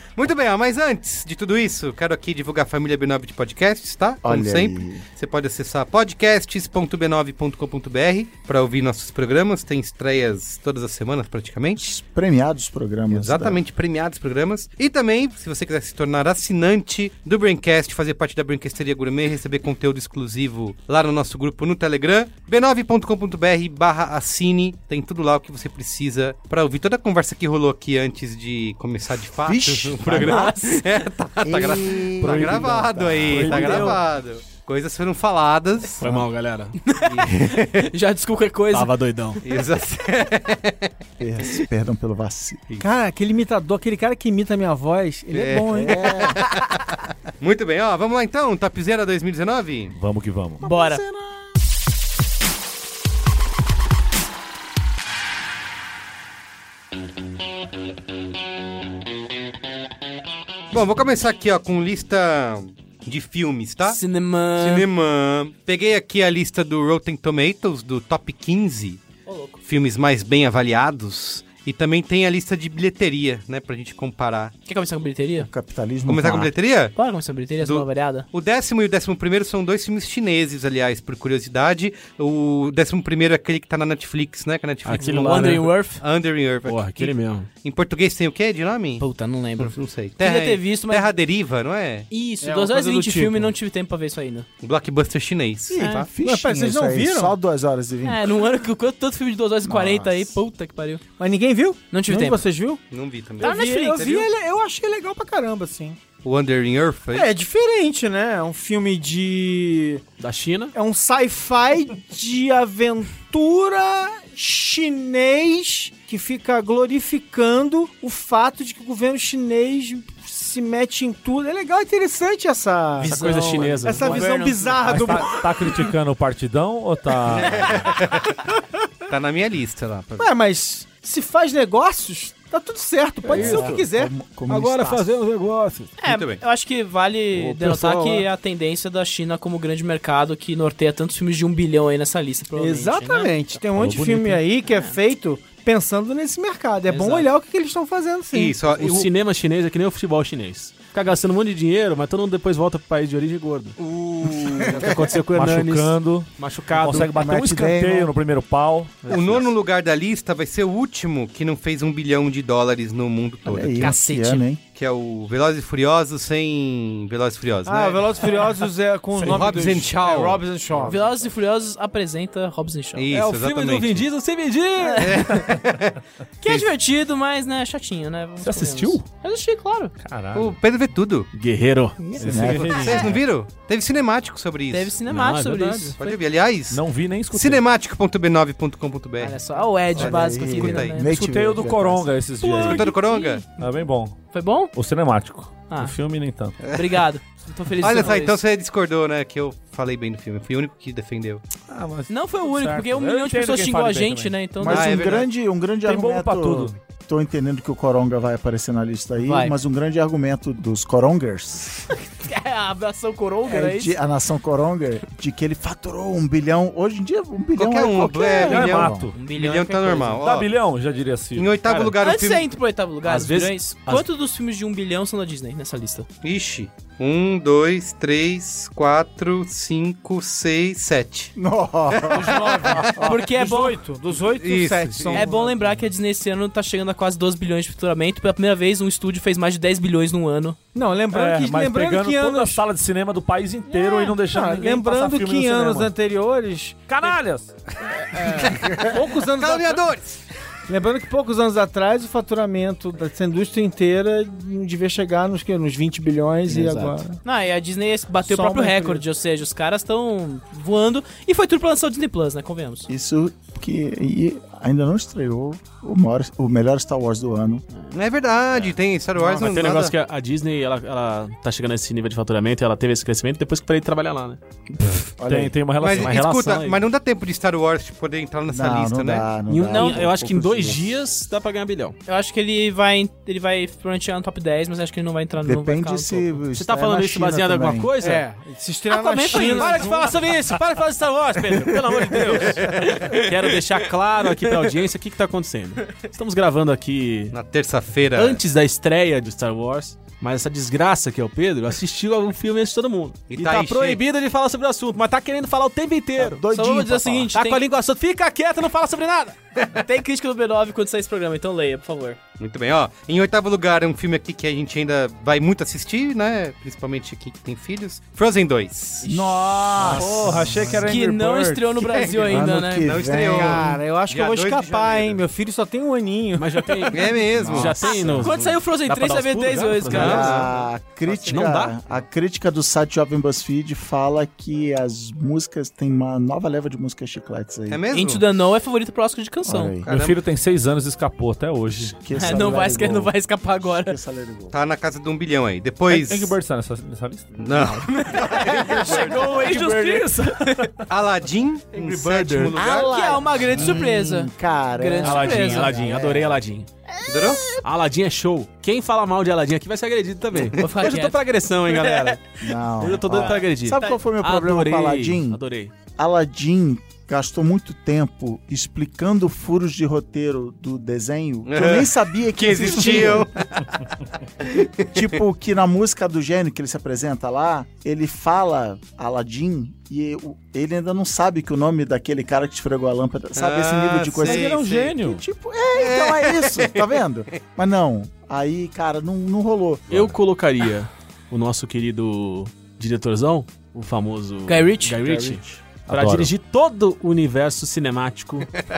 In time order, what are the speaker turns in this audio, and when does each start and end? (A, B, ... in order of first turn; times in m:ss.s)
0:00.2-0:11.8 A
0:04.2-0:05.0 B
0:11.8-0:13.6 B
0:13.1-0:36.0 A
0:29.4-0:30.5 B
0:30.1-0:30.8 C
0:31.4-0:33.9 B
0:32.2-0:34.0 D
0:33.4-0:34.0 E
0:36.0-0:36.8 E
0:36.8-0:38.9 C
0:37.1-0:37.9 A
0:38.7-0:39.4 E
0:39.4-0:40.9 A
0:41.2-0:42.7 B
0:42.8-0:46.3 F
0:45.3-0:46.7 A
0:45.7-0:46.4 B
0:47.4-0:50.0 A
0:49.9-0:50.6 D
0:50.6-0:51.4 B
0:50.6-0:51.0 C
1:00.7-1:04.0 A
1:03.9-1:04.9 C
1:04.6-1:09.0 A
1:09.3-1:09.6 C
1:09.6-1:14.5 A
1:14.7-1:15.5 C
1:15.4-1:16.5 B
1:16.1-1:16.9 A
1:17.0-1:18.3 C
1:17.6-1:29.0 A
1:24.8-1:25.7 E
1:25.0-1:26.0 C
1:26.6-1:27.5 E
1:29.0-1:31.1 C
1:29.6-1:32.1 A
1:32.1-1:34.5 C
1:32.4-1:33.5 F
1:34.6-1:36.1 A
1:35.7-1:38.3 B
1:35.8-1:36.1 C
1:35.8-1:37.4 F
1:38.0-1:41.0 C
1:39.7-1:40.1 B
1:41.2-1:42.8 F
1:41.9-1:42.4 C
1:42.9-1:44.3 A
1:43.4-1:46.0 F
1:43.4-1:44.2 C
1:46.2-1:47.3 A
1:47.1-1:50.0 F
1:50.2-1:50.7 E
1:50.7-2:05.9 F
2:03.0-2:04.3 E
2:03.1-2:05.1 C
2:04.8-2:07.9 D
2:07.4-2:08.3 A
2:09.1-2:10.3 A
2:10.2-2:14.1 F
2:13.3-2:15.1 B
2:13.4-2:13.7 E
2:14.5-2:15.9 E
2:16.0-2:23.6 C
2:16.0-2:16.4 A
2:17.3-2:18.3 E
2:22.5-2:28.6 F
2:23.7-2:24.5 D
2:24.7-2:25.0 C
2:26.9-2:27.3 C
2:28.3-2:29.1 A
2:28.6-2:33.8 E
2:33.8-2:35.0 A
2:34.6-2:37.4 E
2:35.3-2:39.1 D
2:37.0-2:38.1 B
2:39.1-2:39.5 E
2:39.1-2:44.0 A
2:43.4-2:44.6 B
2:43.8-2:44.4 C
2:44.8-2:48.5 A
2:47.6-2:51.1 F
2:49.2-2:49.8 D
2:49.2-2:50.9 A
2:50.8-2:53.1 C
2:53.0-2:54.1 A
2:53.1-2:55.1 E
2:54.8-2:55.4 C
2:55.0-2:56.7 A
2:56.4-2:59.9 C
2:58.4-2:59.0 D
3:00.0-3:00.6 D
3:00.4-3:01.3 A
3:01.3-3:02.1 E
3:02.0-3:03.0 C
3:02.2-3:03.2 D
3:02.2-3:03.1 B
3:02.6-3:05.0 A
3:04.7-3:06.2 C
3:05.0-3:06.0 E
3:06.0-3:06.8 A
3:06.7-3:07.6 D
3:07.3-3:09.4 A
3:09.2-3:11.4 C
3:09.9-3:11.0 A
3:10.0-3:12.1 B
3:11.1-3:12.9 D
3:12.4-3:13.4 C
3:12.6-3:13.5 A
3:13.6-3:14.2 D
3:14.3-3:14.7 C
3:14.7-3:16.6 D
3:15.7-3:16.0 C
3:16.6-3:18.4 C
3:17.8-3:21.4 A
3:21.7-3:24.8 D
3:22.1-3:25.0 C
3:24.6-3:31.8 B
3:24.7-3:25.3 A
3:25.8-3:26.7 D
3:29.2-3:29.6 C
3:32.0-3:34.0 C
3:33.4-3:39.1 B
3:37.6-3:40.5 A
3:38.4-3:39.1 D
3:39.1-3:40.2 C
3:40.2-3:41.6 D
3:41.4-3:42.5 A
3:41.6-3:42.0 E
3:42.0-3:46.1 C
3:43.0-3:44.1 E
3:46.2-3:51.3 A
3:51.4-3:52.4 B
3:51.9-3:52.8 A
3:52.2-3:53.8 C
3:52.2-3:55.8 F
3:54.2-3:55.3 A
3:55.1-4:00.6 C
4:00.7-4:02.6 F
4:01.1-4:05.9 D
4:03.8-4:04.1 C
4:03.8-4:06.9 F
4:06.9-4:08.5 D
4:08.6-4:09.9 F
4:09.4-4:10.2 A
4:10.7-4:17.2 F
4:17.2-4:22.9 C
4:18.2-4:19.0 F
4:22.9-4:27.6 B
4:27.9-4:29.9 A
4:29.2-4:34.4 E
4:35.2-4:35.6 B
4:35.2-4:36.2 D
4:35.8-4:39.3 A
4:35.8-4:36.8 E
4:38.5-4:40.9 B
4:39.5-4:42.0 E
4:39.7-4:40.0 C
4:42.1-4:46.4 C
4:45.4-4:47.9 B
4:46.5-4:48.3 E
4:48.0-4:50.4 F
4:48.9-4:49.9 C
4:49.3-4:57.4 E
4:52.4-4:53.3 A
4:57.3-4:58.4 A
4:58.1-5:06.4 E
5:03.3-5:04.0 A
5:06.2-5:07.3 B
5:06.5-5:07.6 C
5:07.3-5:09.4 E
5:09.7-5:12.2 C
5:12.4-5:19.3 A
5:19.0-5:21.0 B
5:19.8-5:21.8 D
5:19.9-5:20.4 F
5:20.8-5:22.9 C
5:21.8-5:25.2 A
5:22.2-5:23.8 B
5:23.2-5:27.1 F
5:26.4-5:30.5 E
5:26.9-5:27.9 A
5:27.4-5:28.3 B
5:27.8-5:30.5 C
5:29.9-5:30.5 A
5:30.0-5:37.8 B
5:31.3-5:31.8 E
5:31.3-5:31.6 F
5:37.7-5:38.2 A
5:37.9-5:39.8 C
5:39.5-5:39.9 B
5:39.9-5:40.2 A
5:39.9-5:42.6 D
5:41.7-5:44.6 B
5:42.2-5:44.0 C
5:44.5-5:46.3 A
5:45.9-5:47.4 D
5:47.4-5:49.2 A
5:47.6-5:50.7 C
5:48.5-5:49.4 F
5:49.2-5:50.9 D
5:50.9-5:53.0 A
5:51.8-5:52.6 E
5:52.5-5:56.4 B
5:52.6-5:55.8 C
5:55.0-5:56.7 E
5:57.1-5:57.6 A
5:57.6-6:05.7 E
6:00.6-6:02.2 C
6:02.4-6:05.4 B
6:03.2-6:04.0 C
6:06.0-6:13.3 B
6:11.5-6:13.9 A
6:14.4-6:15.0 A
6:14.9-6:30.2 B
6:23.4-6:25.0 A
6:24.2-6:25.2 D
6:25.7-6:27.0 A
6:29.9-6:38.5 E
6:34.5-6:35.0 C
6:35.1-6:35.6 B
6:35.9-6:36.3 D